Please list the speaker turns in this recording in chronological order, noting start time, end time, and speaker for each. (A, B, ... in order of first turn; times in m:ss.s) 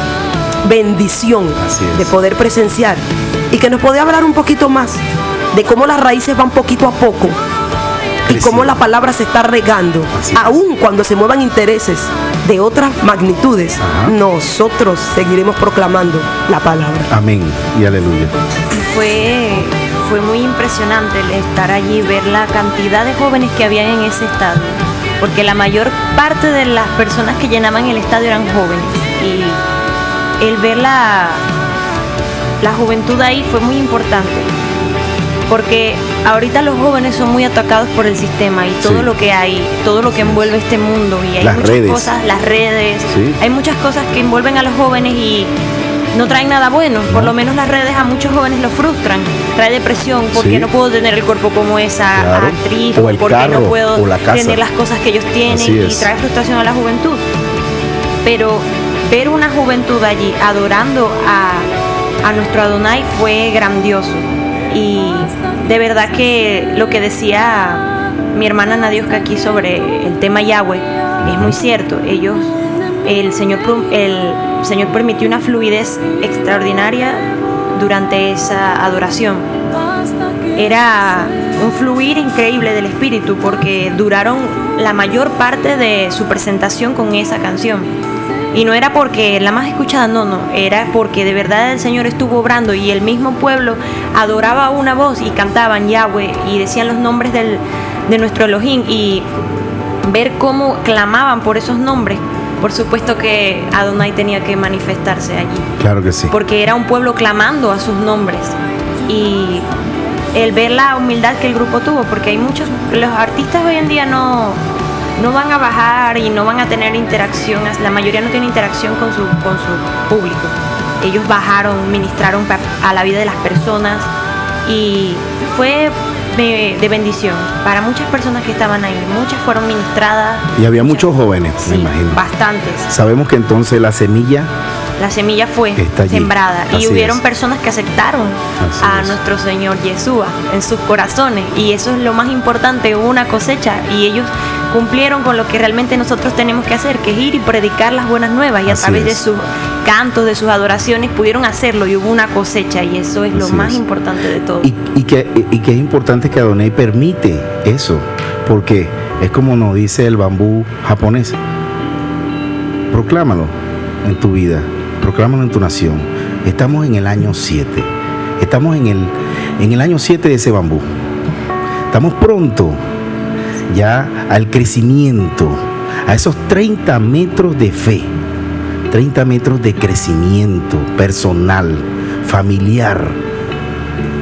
0:00.6-0:07.4 A
0:01.6-0:02.1 B
0:08.3-0:08.8 B
0:08.3-0:17.1 A
0:10.1-0:10.6 B
0:13.8-0:14.2 B
0:17.1-0:18.4 B
0:18.7-0:29.6 C
0:30.4-0:31.4 C
0:32.6-0:34.5 C
0:35.5-0:45.5 C
0:38.8-0:39.1 B
0:40.1-0:40.5 B
0:41.4-0:42.1 B
0:43.1-0:43.4 B
0:46.1-0:57.3 C
0:47.1-0:47.4 B
0:50.4-0:50.7 B
0:52.1-0:54.6 B
0:55.5-0:56.1 B
0:58.2-1:01.7 C
1:02.2-1:19.5 C
1:11.2-1:11.6 B
1:20.6-1:27.9 C
1:28.5-1:39.3 C
1:40.0-1:45.7 C
1:45.8-1:46.3 B
1:46.3-1:49.7 C
1:50.3-1:54.6 C
1:55.2-2:04.1 C
2:04.6-2:12.9 C
2:10.6-2:12.2 B
2:12.9-2:14.5 B
2:15.0-2:34.7 C
2:15.8-2:17.2 B
2:18.6-2:19.2 B
2:28.7-2:29.2 B
2:33.3-2:33.8 B
2:34.6-2:41.4 B
2:42.9-2:50.8 B
2:51.9-2:52.8 B
2:53.7-2:58.1 B
2:58.9-3:03.2 B